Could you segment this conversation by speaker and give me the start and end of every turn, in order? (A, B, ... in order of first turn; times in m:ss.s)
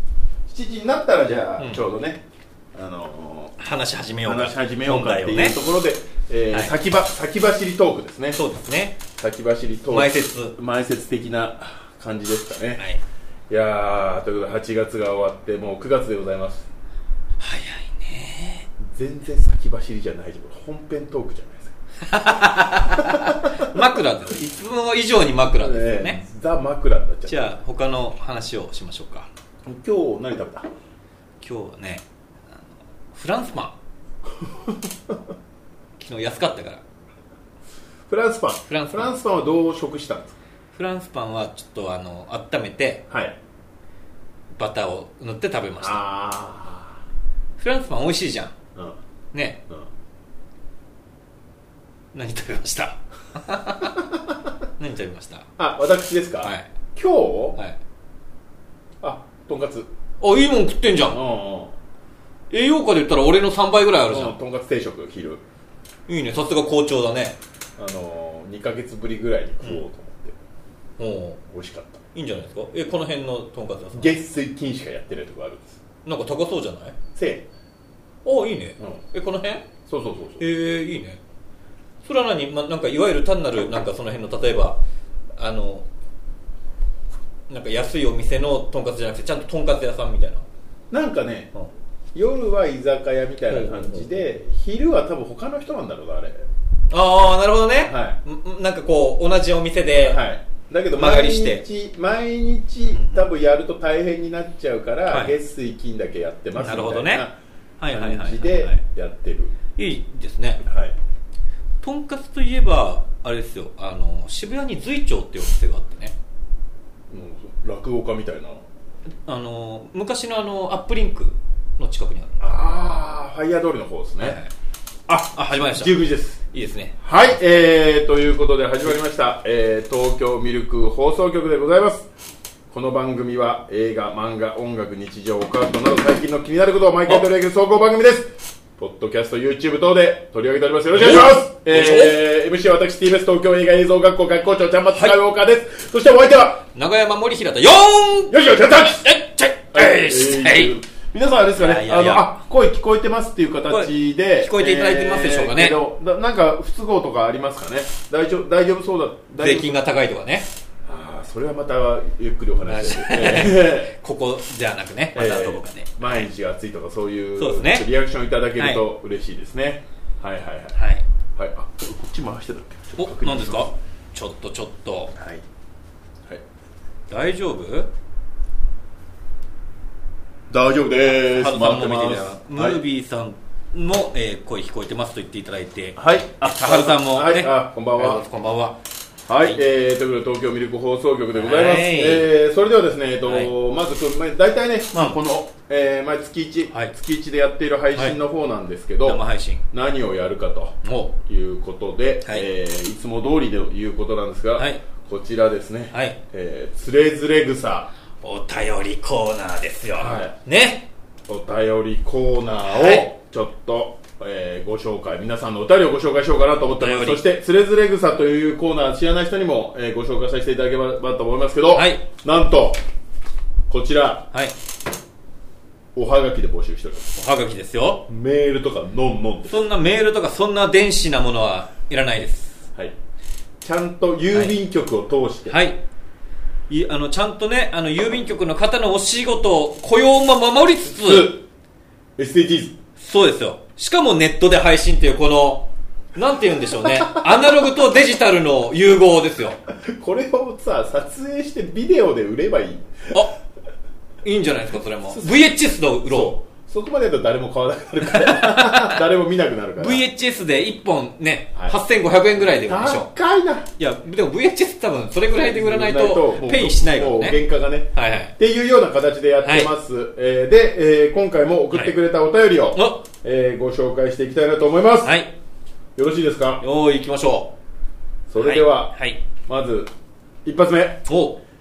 0:00.5-0:02.2 A
0:02.8-0:03.6 A
0:03.6-0:05.6 B
0:04.2-0:08.4 A
0:08.3-0:09.0 B
0:09.2-0:12.9 A
0:09.9-0:10.5 B
0:13.5-0:16.7 A
0:17.4-0:18.7 B
0:18.8-0:23.7 A
0:22.0-0:26.2 B
0:25.6-0:27.5 A
0:27.3-0:29.3 B
0:29.6-0:30.7 A
0:31.4-0:33.8 B
0:34.4-0:35.2 A
0:36.0-0:36.8 B
0:38.1-0:40.4 A
0:38.7-0:39.1 B
0:40.7-0:43.0 B
0:43.1-0:43.4 A
0:44.5-0:46.0 B
0:45.8-0:47.0 A
0:47.6-0:48.6 B
0:49.3-0:49.6 B
0:52.1-0:54.0 B
0:54.8-0:55.5 B
0:55.6-0:57.6 A
0:56.4-0:56.7 B
0:59.0-0:59.9 A
1:00.2-1:01.2 B
1:01.1-1:01.8 A
1:02.5-1:04.4 B
1:04.1-1:05.4 A
1:06.1-1:07.4 B
1:07.8-1:10.4 A
1:11.0-1:11.4 B
1:11.5-1:12.0 A
1:12.1-1:14.2 B
1:13.9-1:15.8 A
1:16.0-1:17.0 B
1:17.1-1:17.4 A
1:18.2-1:19.7 B
1:19.9-1:20.4 A
1:20.4-1:21.2 B
1:22.0-1:24.8 B
1:25.3-1:25.9 B
1:27.5-1:30.4 B
1:30.9-1:31.5 A
1:32.1-1:36.5 A
1:33.5-1:34.1 B
1:36.9-1:40.2 B
1:37.8-1:38.2 A
1:40.0-1:47.3 A
1:40.9-1:41.6 B
1:42.9-1:43.3 B
1:45.1-1:45.3 B
1:46.6-1:47.3 B
1:47.8-1:48.8 B
1:47.9-1:49.5 A
1:49.7-1:50.6 B
1:50.6-1:51.0 A
1:51.8-1:56.2 B
1:57.1-1:58.6 A
1:59.2-2:02.9 B
2:02.4-2:04.4 A
2:04.2-2:04.5 B
2:05.1-2:06.4 A
2:05.3-2:05.9 B
2:06.5-2:07.4 B
2:07.0-2:12.1 A
2:12.7-2:26.6 A
2:20.9-2:22.2 B
2:26.7-2:30.7 B
2:28.3-2:29.1 A
2:29.7-2:39.7 A
2:31.5-2:32.3 B
2:33.7-2:35.8 B
2:39.4-2:40.5 B
2:40.8-2:44.0 A
2:42.6-2:46.3 B
2:45.2-2:50.8 A
2:47.4-2:47.9 B
2:50.8-2:51.0 B
2:51.4-2:53.7 A
2:53.0-2:55.1 B
2:55.1-2:55.4 A
2:57.1-2:57.9 B
3:00.5-3:02.8 A
3:01.1-3:08.8 B
3:06.0-3:08.2 A
3:09.3-3:27.9 A
3:11.3-3:12.3 B
3:13.2-3:13.5 B
3:14.9-3:15.2 B
3:19.1-3:19.6 B
3:20.8-3:21.1 B
3:24.6-3:24.8 B
3:25.9-3:26.2 B
3:28.2-3:30.9 B
3:30.0-3:30.3 A
3:31.3-3:42.8 A
3:32.7-3:33.1 B
3:36.8-3:37.2 B
3:41.7-3:42.0 B
3:43.7-3:44.3 A
3:45.9-3:47.2 A
3:47.2-3:48.1 B
3:48.1-3:49.6 A
3:49.5-3:52.7 B
3:53.6-3:55.6 A
3:55.5-3:55.8 B
3:56.7-4:01.3 B
4:00.8-4:01.4 A
4:02.2-4:02.8 A
4:03.0-4:09.6 B
4:06.8-4:07.3 A
4:09.7-4:13.2 A
4:14.2-4:16.3 B
4:15.0-4:15.5 A
4:16.0-4:20.1 A
4:18.0-4:19.0 B
4:19.8-4:23.1 B
4:22.4-4:23.7 A
4:23.8-4:27.4 B
4:25.3-4:35.2 A
4:27.9-4:28.3 B
4:29.4-4:29.7 B
4:32.8-4:33.0 B
4:35.0-4:35.3 B
4:36.0-4:36.6 A
4:36.6-4:37.5 B
4:38.3-4:38.9 A
4:38.4-4:39.2 B
4:39.5-4:39.9 A
4:40.4-4:41.1 A
4:41.1-4:41.4 B